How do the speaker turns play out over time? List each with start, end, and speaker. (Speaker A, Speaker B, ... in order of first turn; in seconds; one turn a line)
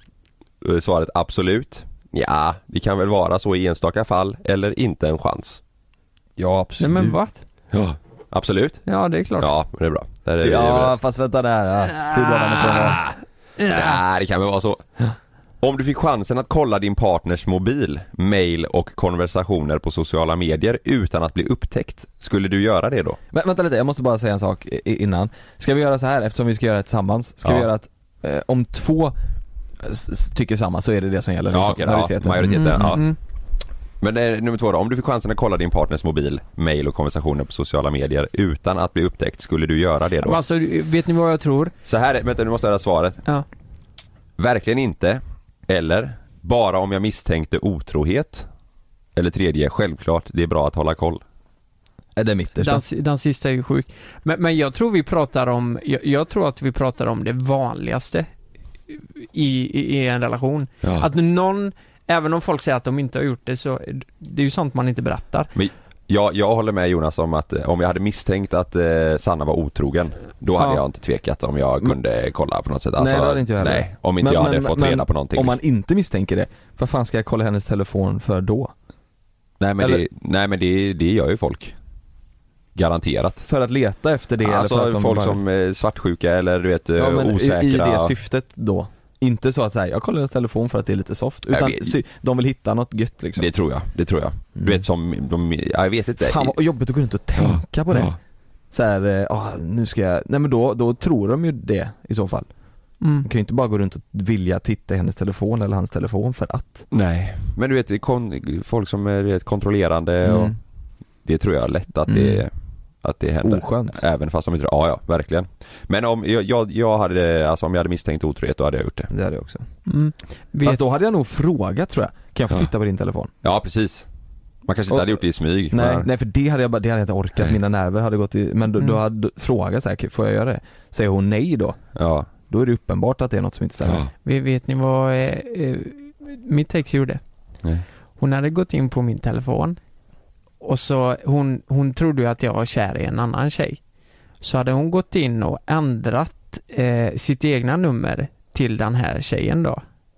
Speaker A: 0.6-5.6
Speaker B: 6.4-7.2
Speaker C: 6.8-7.4
Speaker A: 7.7-8.8
Speaker C: 8.9-9.5
Speaker A: 9.4-10.9
Speaker B: 10.4-13.0
Speaker C: 12.0-13.9
Speaker A: 13.7-14.8
Speaker A: 15.6-23.2
Speaker B: 23.3-29.1
Speaker B: 29.8-32.9
Speaker A: 31.5-33.1
Speaker C: 32.4-33.1
Speaker A: 34.0-40.4
Speaker C: 40.2-41.7
Speaker A: 41.8-43.2
Speaker A: 44.4-48.5
Speaker A: 49.1-51.2
Speaker B: 52.1-52.8
Speaker C: 52.6-58.3
Speaker C: 58.9-65.5
Speaker A: 60.8-61.1
Speaker A: 65.5-75.6
Speaker B: 73.0-78.7
Speaker A: 79.6-81.7
Speaker B: 79.8-80.0
Speaker A: 82.7-83.4
Speaker B: 83.5-85.4
Speaker A: 84.4-88.1
Speaker B: 87.0-93.5
Speaker A: 91.5-91.9
Speaker A: 93.3-96.5
Speaker B: 94.6-94.8
Speaker B: 96.2-98.1
Speaker A: 97.4-98.2
Speaker B: 98.7-102.5
Speaker C: 103.0-103.3
Speaker B: 103.2-106.8
Speaker A: 106.9-110.6
Speaker B: 110.2-110.5
Speaker A: 111.2-112.5
Speaker B: 112.1-112.4
Speaker A: 113.0-119.1
Speaker B: 113.4-114.0
Speaker B: 119.1-119.6
Speaker C: 119.9-120.8
Speaker B: 120.6-123.3
Speaker A: 123.4-124.1
Speaker A: 124.7-126.1
Speaker B: 124.9-131.9
Speaker A: 131.9-132.3
Speaker B: 132.5-134.0
Speaker A: 133.8-134.1
Speaker C: 134.2-137.2
Speaker C: 138.2-139.8
Speaker C: 140.6-143.8
Speaker C: 144.4-149.8